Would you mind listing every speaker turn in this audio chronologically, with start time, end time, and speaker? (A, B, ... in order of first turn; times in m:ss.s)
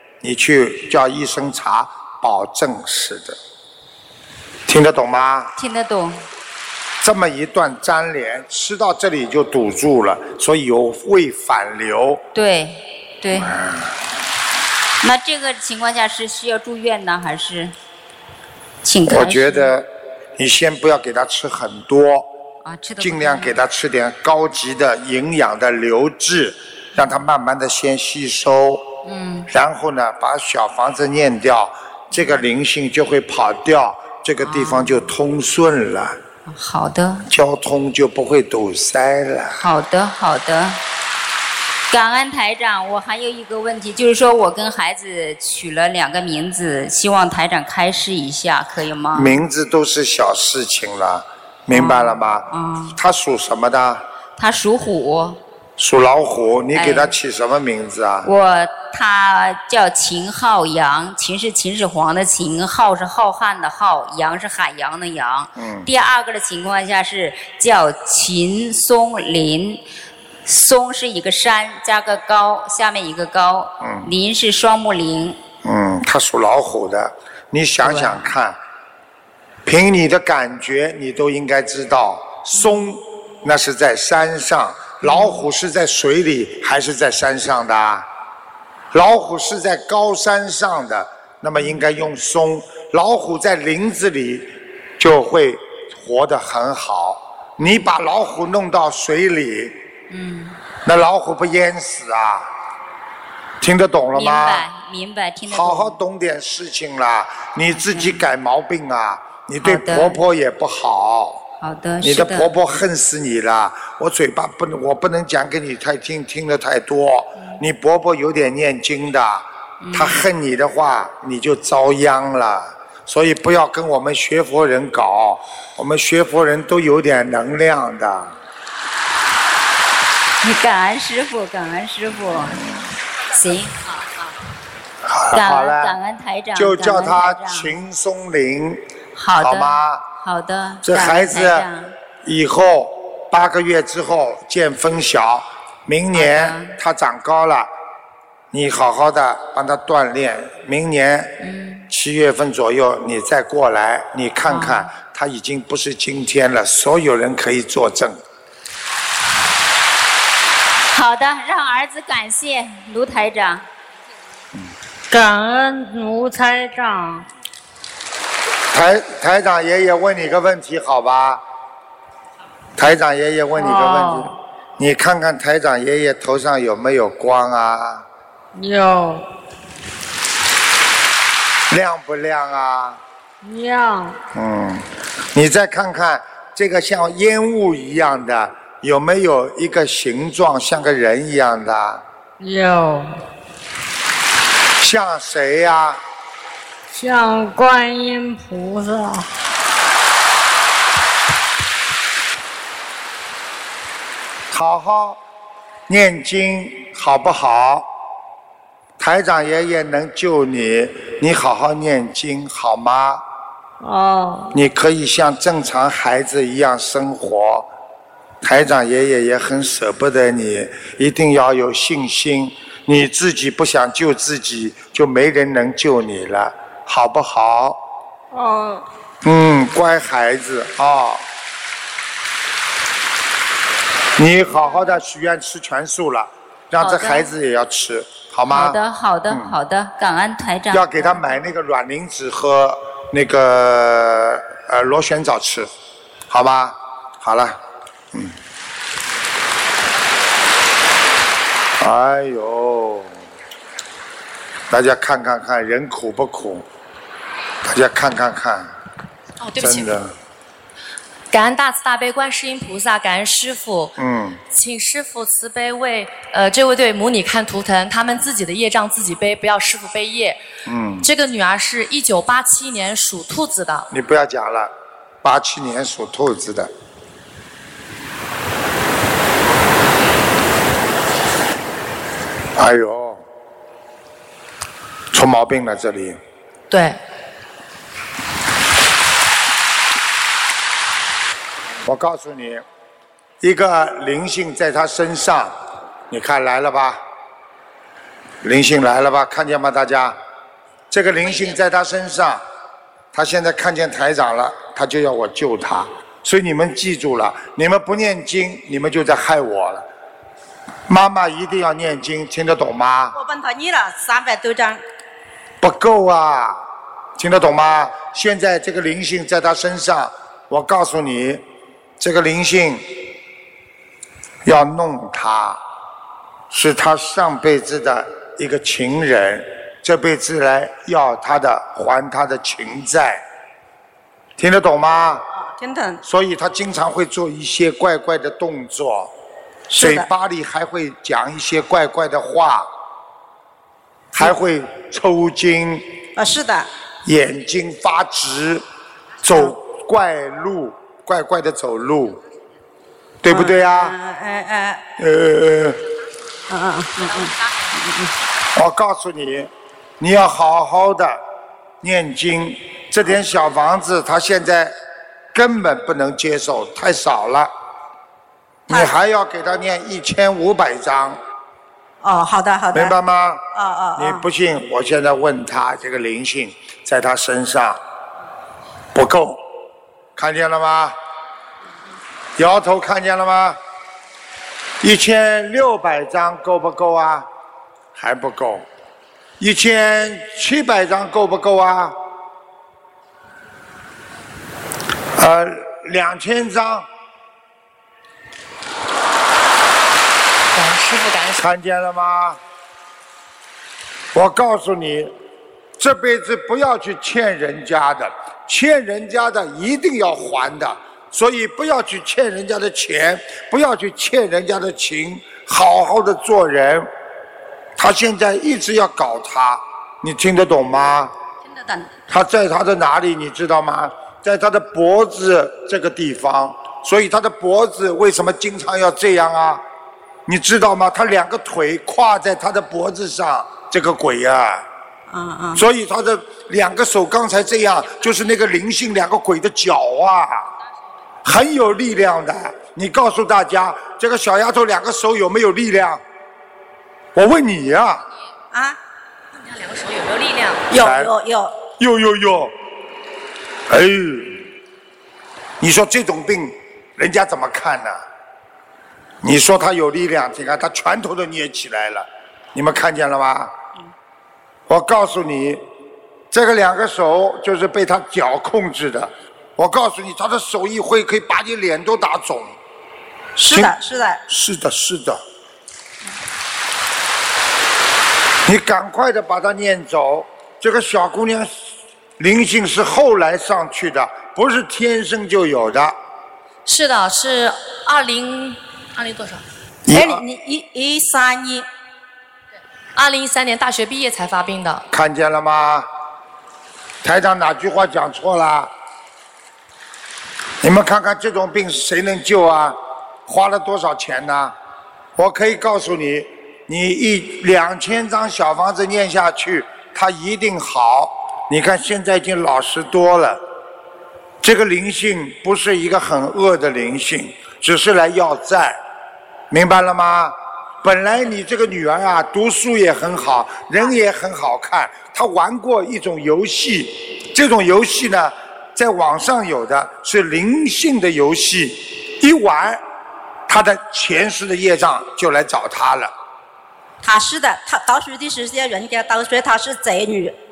0:00.2-0:03.4 A
0:04.7-0:05.5 A
0:05.6-0:06.2 B
0:07.0-0:12.2 A
0:12.3-0:13.6 B
0:13.4-0:13.9 A
0:15.0-0:17.7 B
0:18.8-0:19.7 B
0:19.1-0:22.3 A
0:22.6-0:23.6 B
0:23.0-0:28.9 A
0:29.0-0:29.5 B
0:29.5-0:36.2 A
0:32.1-0:32.4 B
0:34.4-0:35.1 B
0:36.5-0:37.2 B
0:37.3-0:39.6 A
0:39.5-0:40.8 B
0:41.9-0:49.4 B
0:49.1-0:54.0 A
0:51.7-0:53.0 B
0:54.4-0:55.4 B
0:55.8-0:58.3 A
0:56.7-0:57.1 B
0:58.2-1:09.8 B
1:05.6-1:05.9 A
1:10.4-1:15.4 B
1:13.8-1:14.1 A
1:15.6-1:18.6 A
1:17.8-1:18.2 B
1:19.6-1:28.1 A
1:28.9-1:39.8 A
1:40.1-1:40.6 B
1:40.8-1:42.5 A
1:43.6-1:44.7 A
1:44.1-1:46.0 B
1:45.5-1:51.4 A
1:47.8-1:48.2 B
1:49.6-1:50.2 B
1:51.6-1:52.6 B
1:52.0-2:08.3 A
1:59.8-2:00.2 B
2:10.4-2:12.6 B
2:13.3-2:14.1 B
2:15.0-2:16.0 A
2:15.3-2:17.7 B
2:16.5-2:18.8 A
2:19.2-2:21.9 B
2:19.4-2:20.0 A
2:20.8-2:21.6 A
2:22.2-2:27.7 A
2:26.1-2:26.7 B
2:28.5-2:38.2 A
2:31.4-2:31.8 B
2:34.5-2:34.9 B
2:40.9-2:43.6 B
2:45.1-2:47.2 C
2:48.7-2:51.4 A
2:52.8-2:58.0 A
2:53.6-2:54.3 C
2:58.5-2:59.2 C
3:01.7-3:03.0 A
3:03.4-3:04.2 C
3:04.3-3:12.0 A
3:12.4-3:13.2 C
3:14.8-3:16.0 A
3:16.9-3:19.3 C
3:24.5-3:25.2 A
3:25.9-3:27.9 A
3:29.0-3:33.2 A
3:33.8-3:34.5 C
3:34.5-3:37.7 A
3:38.4-3:47.8 A
3:48.3-3:48.8 C
3:49.2-3:51.2 A
3:54.2-3:58.8 A
3:56.8-3:57.3 B
3:58.5-4:01.2 B
4:00.7-4:05.7 A
4:06.3-4:07.6 A
4:11.8-4:13.2 A
4:14.7-4:16.7 A
4:17.6-4:18.7 A
4:19.6-4:20.1 A
4:21.3-4:23.9 D
4:24.0-4:24.4 A
4:24.5-4:30.4 D
4:30.6-4:31.1 A
4:31.0-4:33.9 D
4:33.9-4:36.7 A
4:42.6-4:43.2 A
4:45.1-4:46.2 A
4:46.7-4:47.0 D
4:51.8-4:52.6 A
4:53.4-4:57.0 A
4:58.4-5:00.2 A
5:00.9-5:02.4 A
5:03.1-5:09.9 A
5:10.9-5:13.2 A
5:13.1-5:14.8 E
5:15.6-5:16.6 A
5:17.2-5:21.4 A
5:22.0-5:23.0 A
5:24.4-5:25.6 A
5:26.5-5:33.2 A
5:34.4-5:35.2 A
5:35.3-5:36.0 E
5:36.0-5:39.1 A
5:39.7-5:40.1 E
5:39.7-5:42.7 A
5:44.1-5:46.0 A
5:46.2-5:46.7 E
5:47.0-5:48.6 A
5:49.2-5:52.2 A
5:53.2-5:53.9 A
5:53.3-5:54.8 E
5:55.0-5:55.8 A
5:56.5-5:58.1 E
5:58.5-6:01.2 A
6:01.8-6:04.8 A
6:05.3-6:07.5 A
6:08.7-6:11.2 A
6:08.7-6:09.0 E
6:12.0-6:12.9 E
6:12.7-6:17.8 A
6:13.5-6:14.2 E
6:18.9-6:19.4 A
6:20.2-6:21.0 A
6:22.4-6:23.6 A
6:24.8-6:27.3 A
6:27.9-6:28.7 A
6:29.4-6:32.0 A
6:35.2-6:36.9 A
6:40.5-6:41.5 D
6:41.4-6:42.4 A
6:44.1-6:45.2 A
6:45.8-6:56.9 A
6:57.8-7:01.1 A
7:02.1-7:09.6 A
7:10.2-7:14.6 A
7:15.1-7:15.6 E
7:15.5-7:20.5 A
7:21.2-7:26.0 A
7:27.1-7:28.0 A
7:28.5-7:28.8 E
7:29.3-7:30.6 D
7:30.7-7:31.6 E
7:30.7-7:31.1 A
7:31.8-7:32.6 A
7:33.7-7:34.5 A
7:35.6-7:38.0 A
7:39.2-7:43.5 A
7:44.7-7:45.6 A
7:46.3-7:52.6 A
7:53.4-7:54.2 E
7:53.4-7:55.2 A
7:58.4-8:01.7 A
8:02.2-8:06.0 A
8:06.6-8:09.4 D
8:09.9-8:10.2 A
8:09.9-8:11.6 E
8:12.9-8:14.8 D
8:14.9-8:15.9 A
8:17.0-8:18.7 A
8:20.6-8:24.5 A
8:25.2-8:33.4 A
8:34.4-8:38.8 A
8:39.5-8:52.8 A
8:53.5-8:56.1 A
8:57.0-9:00.4 E